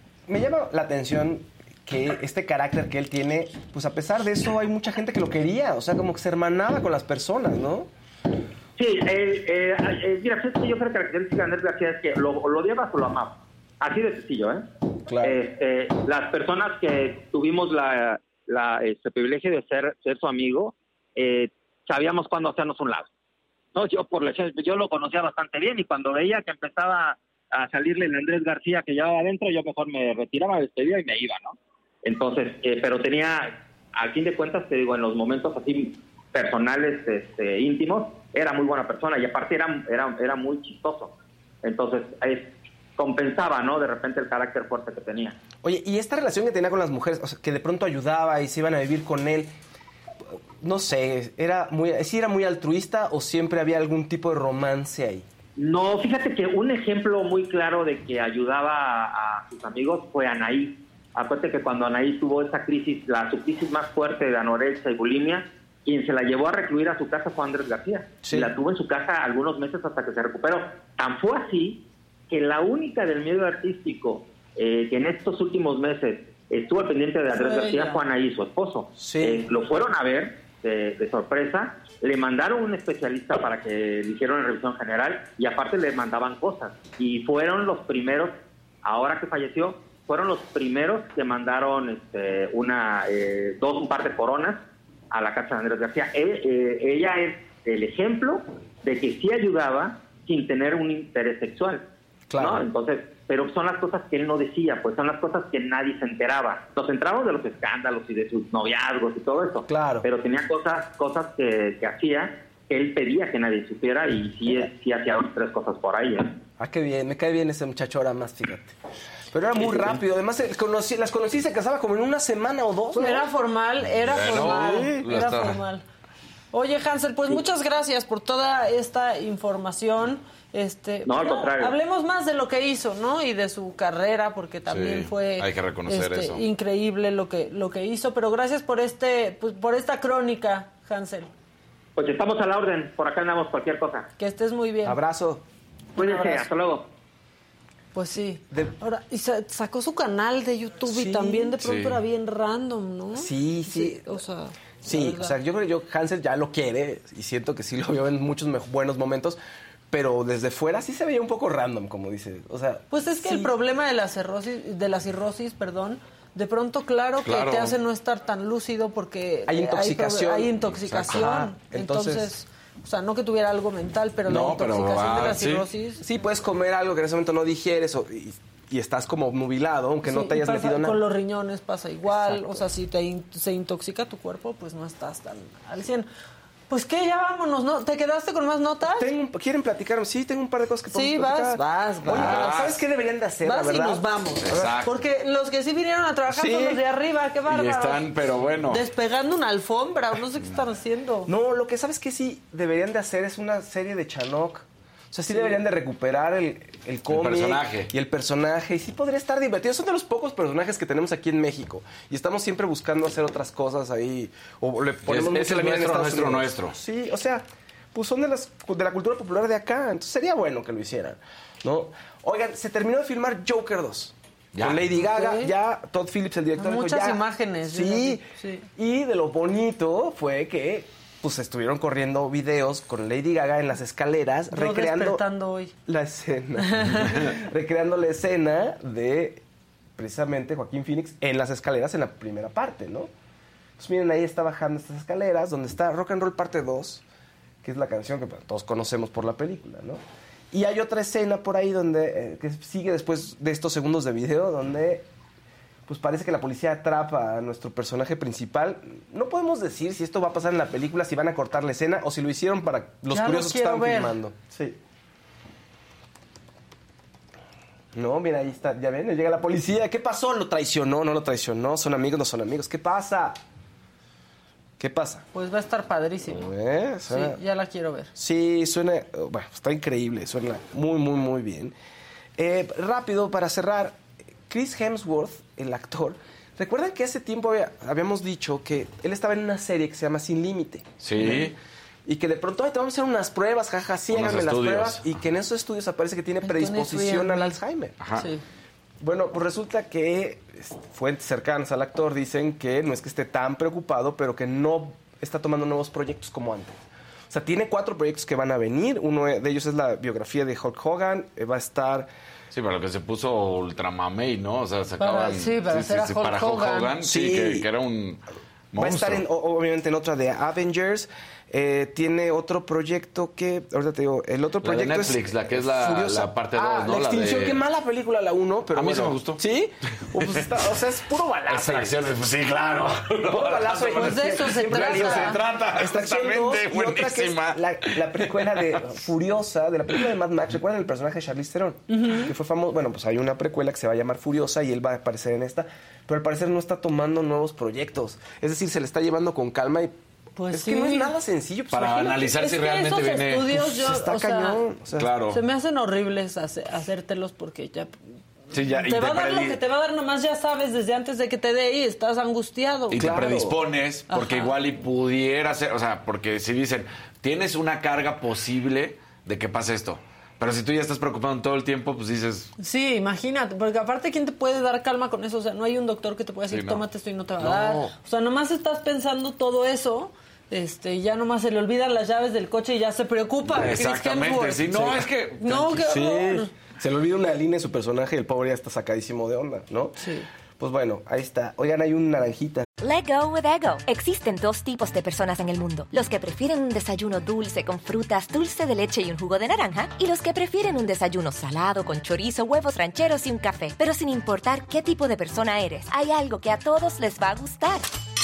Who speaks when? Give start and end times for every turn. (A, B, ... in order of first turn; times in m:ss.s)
0:00.3-0:07.9 A
0:08.8-0:14.7 B
0:15.1-0:15.4 A
0:15.2-0:23.1 B
0:23.7-0:45.4 B
0:45.6-0:49.6 A
0:50.6-0:55.3 A
0:55.6-1:41.8 B
1:08.2-1:08.5 A
1:17.4-1:18.0 C
1:19.0-1:19.5 A
1:42.3-1:42.6 A
1:42.4-1:56.4 B
1:49.7-1:50.1 A
1:56.6-1:58.7 A
1:59.3-2:03.3 A
2:02.9-2:05.8 C
2:04.1-2:05.6 D
2:04.3-2:05.0 A
2:06.5-2:21.3 C
2:11.0-2:11.8 B
2:14.7-2:16.4 D
2:22.0-2:24.1 B
2:24.2-2:25.0 C
2:24.8-2:25.4 A
2:26.0-2:26.5 C
2:26.0-2:26.9 B
2:27.9-2:35.4 C
2:30.9-2:31.6 A
2:31.6-2:32.0 D
2:33.2-2:34.2 A
2:34.8-2:43.5 A
2:42.9-2:56.0 C
2:47.2-2:47.8 D
2:49.5-2:52.3 A
2:50.9-2:51.2 D
2:54.3-2:55.7 D
2:56.0-3:01.0 A
3:00.0-3:06.1 C
3:02.1-3:02.4 A
3:06.7-3:09.1 C
3:09.0-3:14.8 A
3:10.9-3:12.5 C
3:12.1-3:12.8 D
3:13.4-3:18.1 C
3:14.4-3:15.0 D
3:16.3-3:16.8 A
3:17.5-3:18.9 D
3:18.7-3:21.3 C
3:21.3-3:55.2 A
3:27.1-3:27.9 D
3:35.1-3:36.8 D
3:44.5-3:44.8 D
3:45.0-3:45.5 C
3:46.6-3:48.7 C
3:54.5-3:55.7 C
3:55.9-3:59.4 A
3:56.6-3:57.3 C
4:00.0-4:03.1 A
4:03.8-4:07.0 A
4:07.6-4:10.0 A
4:10.5-4:15.1 A
4:15.9-4:24.8 A
4:23.1-4:24.2 C
4:27.9-4:33.4 A
4:34.8-4:35.3 A
4:35.3-4:36.5 C
4:36.2-4:37.4 A
4:37.1-4:38.1 C
4:38.2-4:41.7 A
4:42.4-4:58.0 A
4:51.0-4:51.6 D
4:54.1-4:55.1 D
4:56.4-4:57.6 C
4:58.0-4:58.3 D
4:58.1-4:58.4 C
4:59.0-5:06.8 A
5:07.3-5:12.1 A
5:12.5-5:19.2 D
5:15.0-5:16.9 C
5:17.0-5:17.7 A
5:18.8-5:32.0 A
5:24.6-5:27.6 D
5:28.7-5:29.4 D
5:30.0-5:30.5 D
5:31.5-5:38.6 D
5:33.3-5:50.0 A
5:33.9-5:35.4 C
5:41.9-5:42.3 C
5:50.4-5:51.1 C
5:50.5-5:52.3 A
5:51.7-5:53.7 D
5:52.1-5:54.6 C
5:53.5-5:55.1 A
5:55.0-5:55.4 D
5:55.3-5:58.0 C
5:58.5-5:59.6 D
5:58.5-6:03.2 C
6:02.9-6:12.5 D
6:03.0-6:03.6 A
6:04.1-6:04.6 C
6:12.6-6:24.7 C
6:16.5-6:16.8 D
6:17.4-6:17.9 D
6:23.5-6:26.0 D
6:24.7-6:25.1 A
6:25.4-6:26.5 C
6:25.7-6:32.7 A
6:30.0-6:30.3 C
6:32.8-6:47.9 E